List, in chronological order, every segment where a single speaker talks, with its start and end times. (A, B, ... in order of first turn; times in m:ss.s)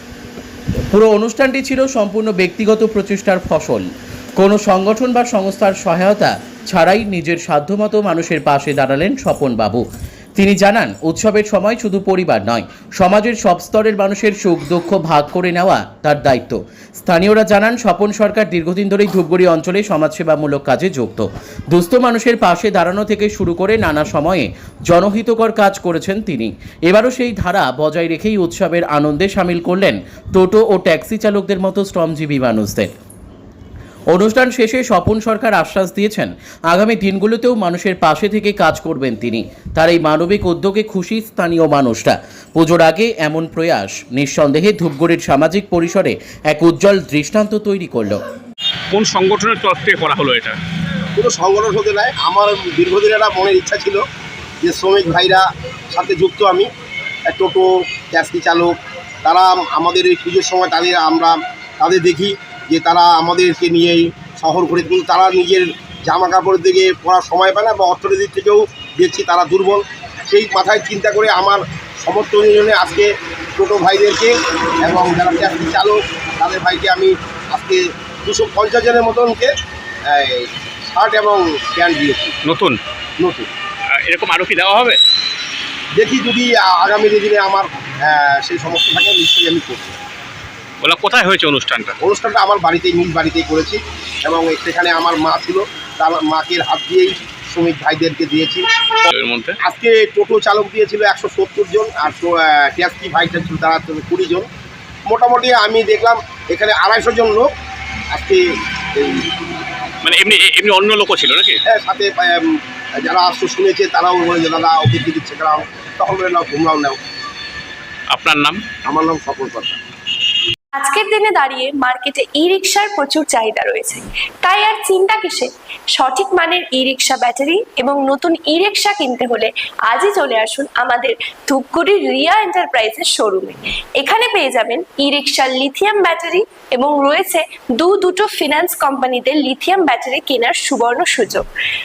0:00.9-0:09.8 A
0:10.4-0:32.9 A
0:34.1-0:48.2 A
0:48.9-0:50.6 B
0:51.2-0:54.0 C
0:54.6-0:56.7 C
0:57.3-1:19.5 C
1:20.0-1:22.4 C
1:22.4-1:22.8 B
1:23.2-1:23.5 C
1:23.9-1:25.0 B
1:26.0-1:30.0 C
1:30.8-1:32.0 B
1:32.0-1:38.7 C
1:39.1-1:39.6 B
1:39.6-1:44.5 C
1:45.1-1:47.5 C
1:48.1-1:49.3 C
1:50.0-1:51.6 B
1:51.6-1:57.0 C
1:58.1-1:58.6 B
1:58.8-1:59.8 C
2:00.7-2:21.5 D